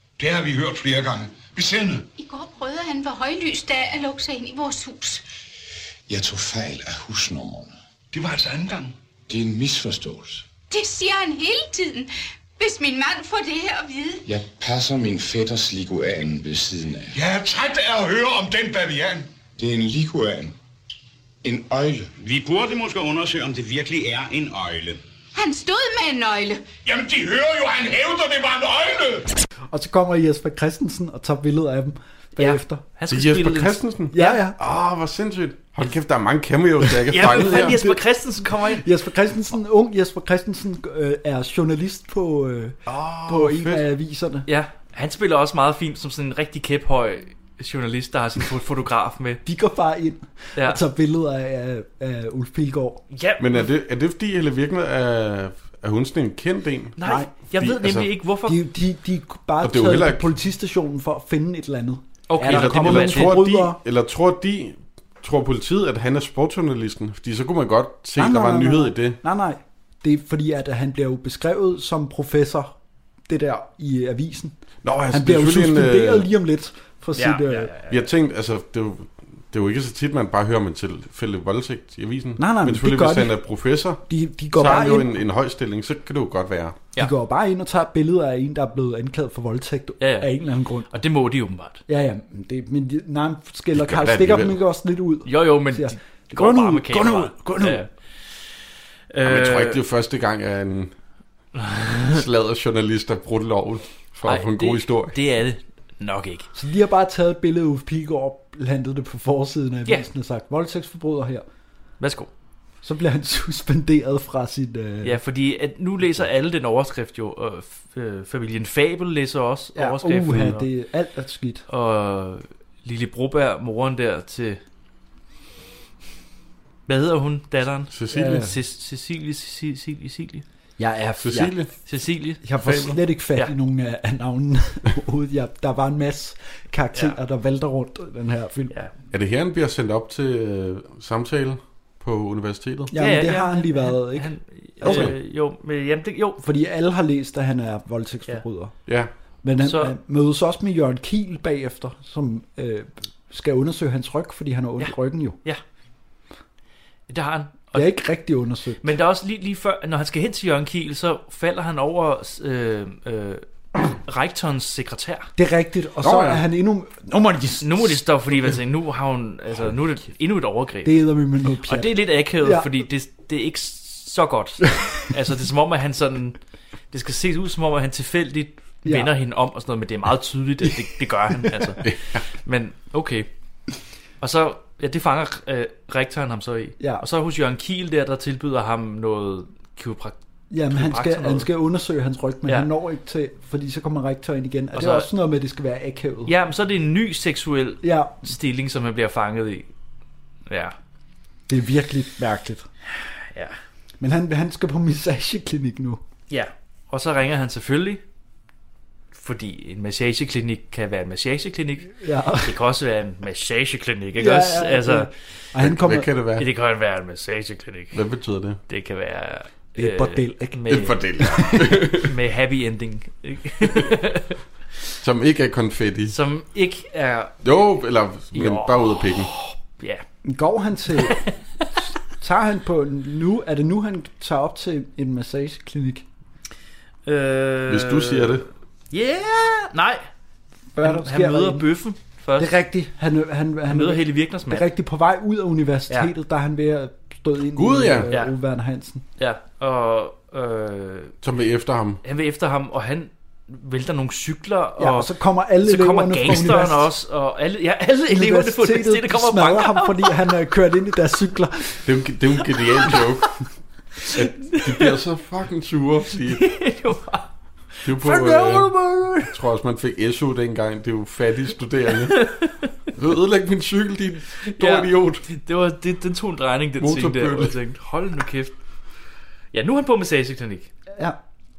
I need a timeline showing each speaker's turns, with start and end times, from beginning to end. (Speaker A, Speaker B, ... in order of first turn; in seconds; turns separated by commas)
Speaker A: 0.2-2.0, Speaker B: 2.1-5.2, Speaker C: 6.1-7.7, Speaker A: 8.1-8.9, Speaker C: 9.3-10.4, Speaker B: 10.7-14.2, Speaker C: 14.2-17.2, Speaker A: 17.1-19.3, Speaker C: 19.6-20.5, Speaker C: 21.4-22.1, Speaker D: 22.1-25.0, Speaker B: 25.3-26.7, Speaker A: 26.8-29.3, Speaker E: 29.7-32.8, Speaker F: 32.4-34.4, Speaker G: 33.1-37.8, Speaker E: 34.1-34.6, Speaker E: 37.1-38.0, Speaker F: 37.1-38.8, Speaker E: 38.5-44.5, Speaker G: 42.9-43.8, Speaker F: 44.5-49.4, Speaker E: 49.5-53.0, Speaker F: 50.5-50.8, Speaker F: 53.1-53.7, Speaker G: 53.4-57.0, Speaker F: 57.0-58.6, Speaker E: 57.0-57.3, Speaker G: 57.5-58.1, Speaker E: 58.5-63.8, Speaker G: 59.6-60.3, Speaker F: 62.3-63.4, Speaker G: 62.4-69.2, Speaker E: 68.2-72.7, Speaker E: 73.3-74.5, Speaker G: 74.8-76.3, Speaker E: 75.1-77.7, Speaker F: 77.2-78.1, Speaker G: 77.9-86.8, Speaker E: 82.4-83.3, Speaker E: 84.1-85.1, Speaker E: 87.0-90.9, Speaker F: 90.0-90.3, Speaker F: 90.9-91.8, Speaker E: 91.9-97.8, Speaker G: 93.7-94.6, Speaker F: 95.2-97.9, Speaker F: 99.1-99.8, Speaker G: 99.2-100.9, Speaker F: 101.7-102.2, Speaker G: 102.0-105.2, Speaker F: 104.2-106.5, Speaker E: 106.5-111.4, Speaker F: 112.0-112.3, Speaker E: 112.8-115.2, Speaker F: 115.0-120.7, Speaker E: 119.7-121.6, Speaker F: 121.7-124.6, Speaker F: 126.9-130.4, Speaker G: 127.9-128.4, Speaker E: 128.1-128.5, Speaker E: 130.8-131.5, Speaker G: 131.2-131.7, Speaker F: 131.8-132.4, Speaker E: 132.4-138.7, Speaker G: 132.6-133.0, Speaker G: 139.1-142.9, Speaker E: 142.9-145.1, Speaker F: 142.9-146.4, Speaker G: 144.8-145.1, Speaker E: 146.4-148.7, Speaker E: 149.4-155.4, Speaker F: 149.6-149.9, Speaker F: 154.8-155.6, Speaker F: 157.1-157.9, Speaker E: 157.7-158.8, Speaker F: 158.8-165.3, Speaker E: 165.3-168.0, Speaker G: 166.0-166.4, Speaker F: 167.6-171.0, Speaker E: 170.8-172.7, Speaker F: 171.7-176.4, Speaker F: 176.9-183.3, Speaker E: 178.8-179.1, Speaker E: 180.6-181.7, Speaker G: 181.8-182.2, Speaker F: 184.2-190.2, Speaker E: 190.5-196.3, Speaker F: 190.7-191.5, Speaker F: 194.7-195.1, Speaker F: 196.2-199.7, Speaker E: 197.8-198.2, Speaker F: 200.5-200.8, Speaker E: 201.5-202.7, Speaker F: 203.3-203.6, Speaker E: 204.0-206.0, Speaker F: 206.3-208.0, Speaker F: 209.1-215.1, Speaker E: 211.9-212.6, Speaker E: 214.2-216.1, Speaker G: 215.6-216.4, Speaker F: 216.4-218.0, Speaker G: 217.9-218.6, Speaker F: 218.7-221.0, Speaker E: 219.8-221.7, Speaker G: 220.7-222.1, Speaker F: 221.9-224.4, Speaker G: 225.0-226.2, Speaker F: 226.1-227.4, Speaker G: 227.4-229.3, Speaker F: 228.3-230.0, Speaker E: 230.2-231.2, Speaker F: 231.1-231.3, Speaker E: 232.1-236.1, Speaker F: 237.1-238.4, Speaker G: 237.7-238.5, Speaker F: 238.9-240.0, Speaker E: 240.7-241.7, Speaker F: 240.8-242.5, Speaker E: 242.4-249.0, Speaker F: 243.7-244.7, Speaker G: 247.6-248.1, Speaker F: 249.2-251.1, Speaker G: 251.2-252.0, Speaker F: 252.0-260.1, Speaker E: 254.8-256.9, Speaker E: 258.1-261.9, Speaker G: 261.8-263.4, Speaker F: 264.0-264.9, Speaker G: 264.1-266.5, Speaker F: 266.3-267.3, Speaker G: 267.8-268.7, Speaker E: 268.0-269.3, Speaker G: 269.2-272.4, Speaker F: 272.1-272.6, Speaker G: 272.9-275.2, Speaker F: 274.5-278.5, Speaker G: 276.8-277.6, Speaker F: 279.5-280.7